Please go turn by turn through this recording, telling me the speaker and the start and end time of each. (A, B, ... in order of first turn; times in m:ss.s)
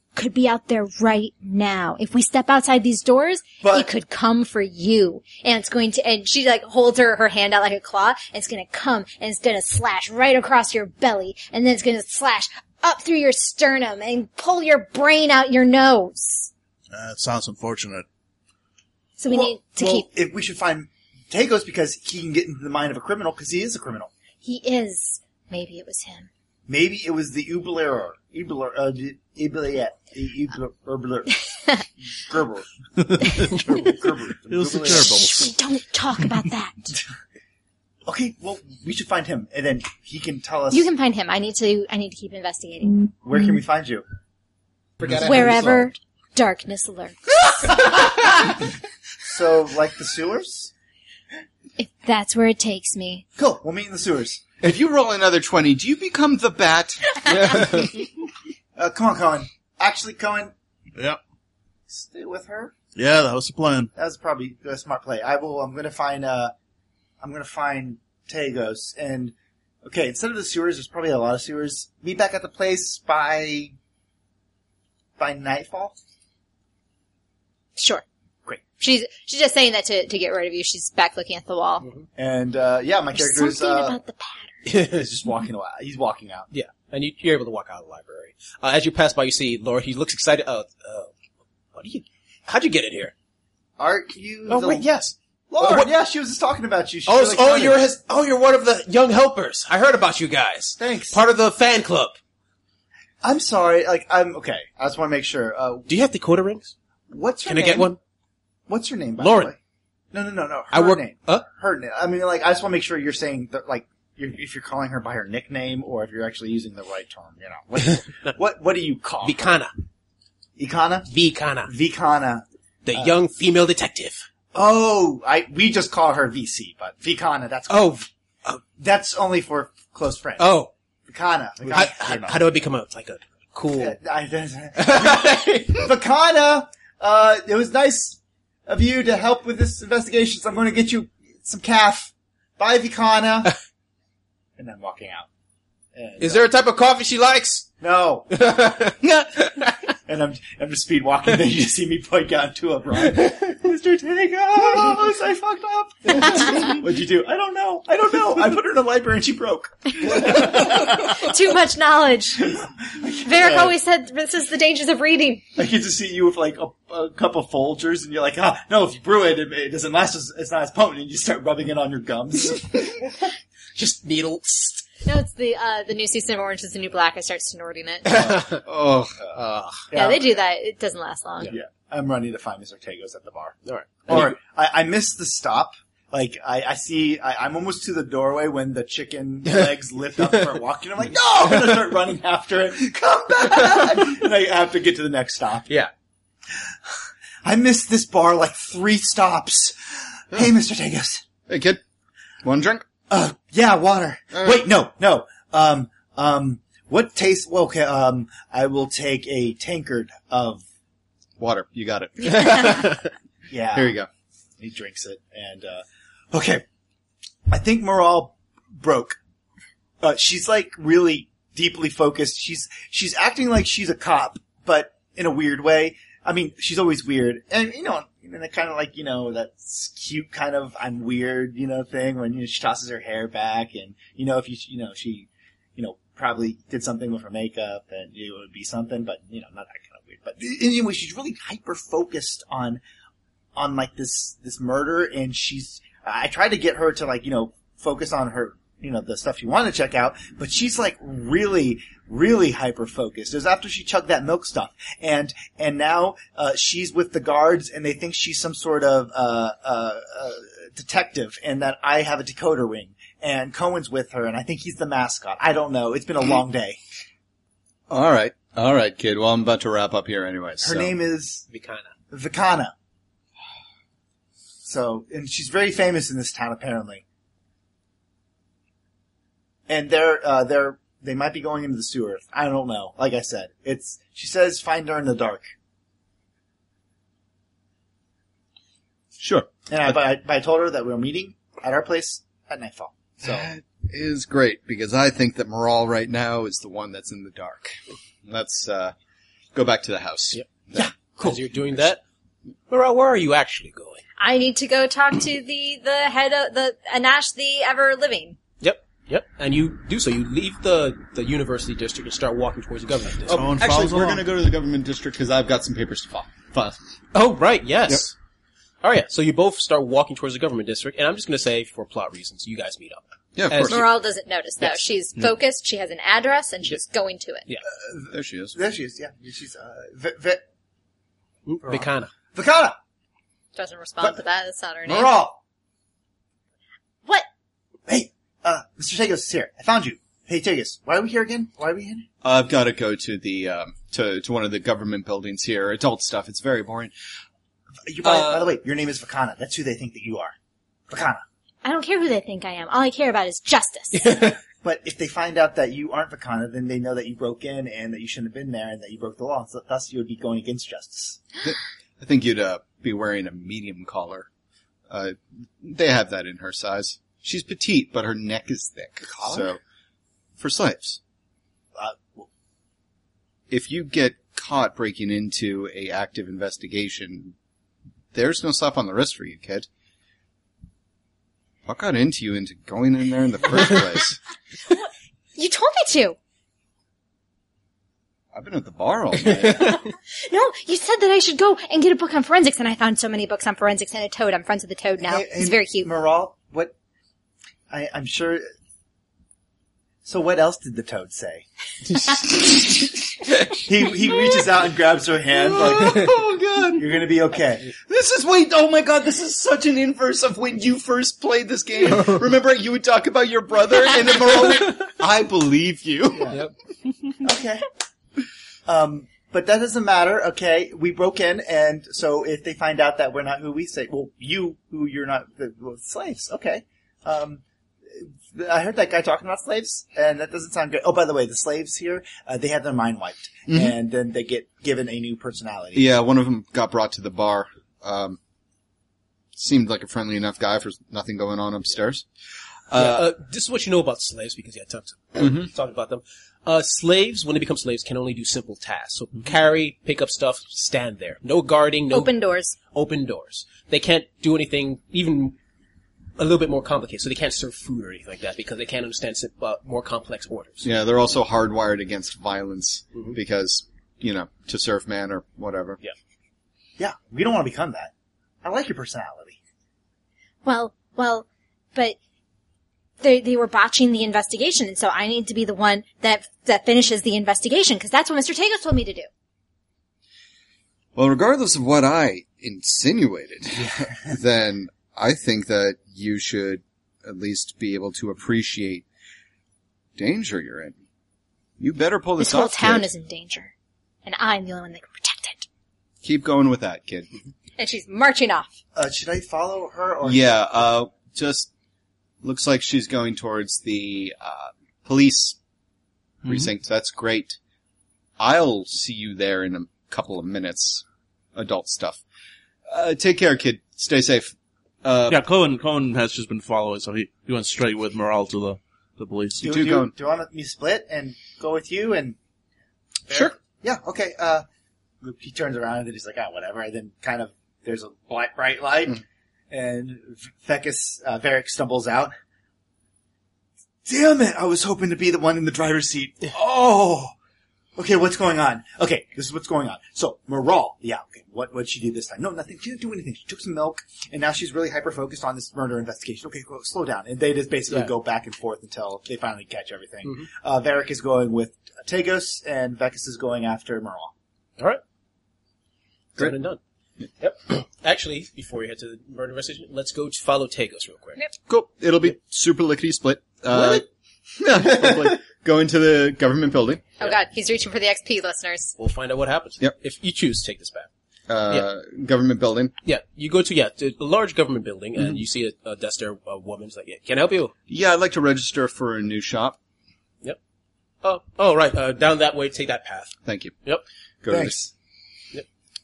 0:00.1-0:16.5 A
0:03.6-0:03.9 B
0:16.9-0:18.0 C
0:19.2-0:20.1 A
0:19.3-0:24.1 B
0:24.4-0:26.3 A
0:26.7-0:31.4 B
0:31.5-0:31.8 A
0:32.1-0:32.7 B
0:33.0-0:33.9 C
0:33.2-0:35.3 B
0:34.4-0:35.5 C
0:34.8-0:36.9 A
0:38.0-0:40.9 B
0:40.7-0:43.1 A
0:43.2-0:44.0 B
0:45.0-0:45.8 C
0:45.1-0:47.8 A
0:49.2-0:50.7 B
0:51.8-0:53.2 A
0:53.4-0:54.4 B
0:54.6-0:57.2 D
0:57.3-0:57.9 E
0:58.8-1:00.5 B
1:01.9-1:02.7 B
1:03.0-1:03.9 C
1:04.0-1:06.5 B
1:07.2-1:13.7 B
1:15.2-1:16.0 B
1:17.8-1:18.0 A
1:18.8-1:21.8 A
1:22.2-1:24.0 B
1:23.1-1:24.6 A
1:24.6-1:25.0 E
1:24.7-1:26.5 B
1:26.5-1:31.1 E
1:31.7-1:33.1 E
1:33.8-1:34.8 B
1:34.5-1:35.9 E
1:35.5-1:37.8 B
1:37.1-1:42.2 E
1:40.8-1:41.2 B
1:43.2-1:45.9 B
1:45.9-1:46.7 E
1:47.1-1:47.9 B
1:47.4-1:48.0 E
1:48.7-1:49.6 B
1:49.2-1:49.5 E
1:50.1-1:59.4 B
1:50.7-1:51.4 E
1:59.2-1:59.7 E
2:00.6-2:01.1 B
2:01.1-2:01.7 E
2:01.6-2:03.1 B
2:02.8-2:04.2 E
2:04.5-2:08.0 B
2:07.7-2:08.6 E
2:08.8-2:10.5 B
2:10.4-2:10.7 E
2:11.1-2:12.4 B
2:11.7-2:14.0 E
2:13.7-2:23.6 B
2:14.8-2:15.9 E
2:24.6-2:25.3 B
2:25.9-2:26.5 B
2:26.2-2:27.7 E
2:27.8-2:28.3 B
2:28.3-2:29.7 E
2:30.0-2:41.3 B
2:40.0-2:42.5 A
2:42.4-2:43.7 B
2:43.2-2:45.5 A
2:45.6-2:53.2 B
2:53.8-2:54.8 E
2:55.0-2:58.1 A
2:58.0-2:59.9 E
2:58.1-2:58.4 B
2:58.7-2:59.1 D
2:59.9-3:00.2 B
2:59.9-3:01.5 A
3:01.5-3:15.7 B
3:03.6-3:04.4 E
3:17.4-3:21.2 B
3:21.5-3:21.8 D
3:22.4-3:22.9 D
3:23.1-3:30.6 B
3:24.3-3:24.7 D
3:31.4-3:33.0 D
3:32.4-3:33.0 E
3:33.5-3:34.0 B
3:33.7-3:34.1 D
3:34.6-3:36.6 B
3:37.5-3:39.2 B
3:40.0-4:02.8 B
4:03.6-4:26.8 B
4:27.9-4:31.0 D
4:30.6-4:31.4 B
4:31.5-4:31.9 E
4:32.1-4:32.7 B
4:34.6-4:37.0 B
4:39.7-4:45.5 B
4:49.2-4:49.5 D
4:49.7-4:53.5 B
4:53.2-4:58.9 D
4:59.5-5:00.9 D
5:00.7-5:01.4 B
5:01.0-5:02.0 E
5:02.7-5:04.0 E
5:04.2-5:08.4 A
5:08.6-5:13.5 E
5:13.3-5:14.2 C
5:13.4-5:16.8 D
5:17.1-5:18.1 E
5:18.8-5:23.8 E
5:23.3-5:23.9 D
5:23.6-5:27.5 A
5:27.9-5:30.4 B
5:28.1-5:28.6 D
5:31.4-5:32.1 E
5:31.6-5:32.8 B
5:33.5-5:35.1 A
5:34.8-5:35.4 B
5:37.9-5:42.1 B
5:42.2-5:46.9 D
5:47.8-5:50.3 B
5:50.9-5:51.2 B
5:51.6-5:54.2 A
5:53.9-5:54.4 E
5:54.6-6:01.2 B
6:01.4-6:04.3 D
6:04.9-6:09.6 D
6:09.1-6:09.5 B
6:10.4-6:11.0 D
6:11.8-6:12.3 B
6:13.5-6:17.3 D
6:18.1-6:19.7 D
6:21.6-6:24.2 D
6:25.4-6:26.2 A
6:28.3-6:29.8 D
6:29.4-6:29.8 E
6:30.1-6:35.9 A
6:35.0-6:36.7 B
6:37.7-6:38.4 B
6:40.0-6:41.4 B
6:43.5-6:46.2 B
6:45.3-6:47.0 D
6:46.8-6:47.7 B
6:47.6-6:56.4 D
6:57.2-6:57.7 B
6:58.6-7:07.4 B
7:07.9-7:15.8 B
7:13.5-7:13.7 D
7:15.7-7:18.2 D
7:19.3-7:22.0 D
7:22.7-7:23.1 D
7:22.7-7:32.1 E
7:25.2-7:25.5 D
7:31.9-7:32.6 A
7:32.7-7:35.4 E
7:36.2-7:40.6 E
7:40.6-7:45.8 D
7:46.8-7:47.9 B
7:48.4-7:49.4 B
7:50.4-7:52.0 A
7:53.0-7:59.1 A
8:00.9-8:08.8 D
8:10.0-8:10.7 D
8:11.6-8:12.9 D
8:12.2-8:13.5 A
8:14.0-8:15.5 A
8:16.0-8:17.1 D
8:17.6-8:18.5 A
8:18.8-8:20.4 B
8:20.0-8:21.5 D
8:22.2-8:25.4 D
8:26.2-8:27.4 D
8:28.2-8:30.8 D
8:31.3-8:32.0 D
8:32.7-8:35.2 D
8:35.1-8:39.4 C
8:39.4-8:42.2 B
8:39.4-8:39.9 D
8:43.1-8:43.3 E
8:43.1-8:44.4 B
8:45.0-8:52.1 B
8:53.8-8:57.1 B
8:57.8-9:14.1 B
9:16.2-9:16.6 E
9:17.2-9:21.2 E
9:21.5-9:26.8 D
9:23.5-9:23.8 E
9:27.0-9:28.7 A
9:28.8-9:30.9 E
9:31.3-9:32.7 D
9:32.8-9:37.5 E
9:37.7-9:39.6 D
9:41.0-9:43.8 E
9:43.2-9:43.6 D
9:44.2-9:44.6 D
9:44.3-9:44.7 B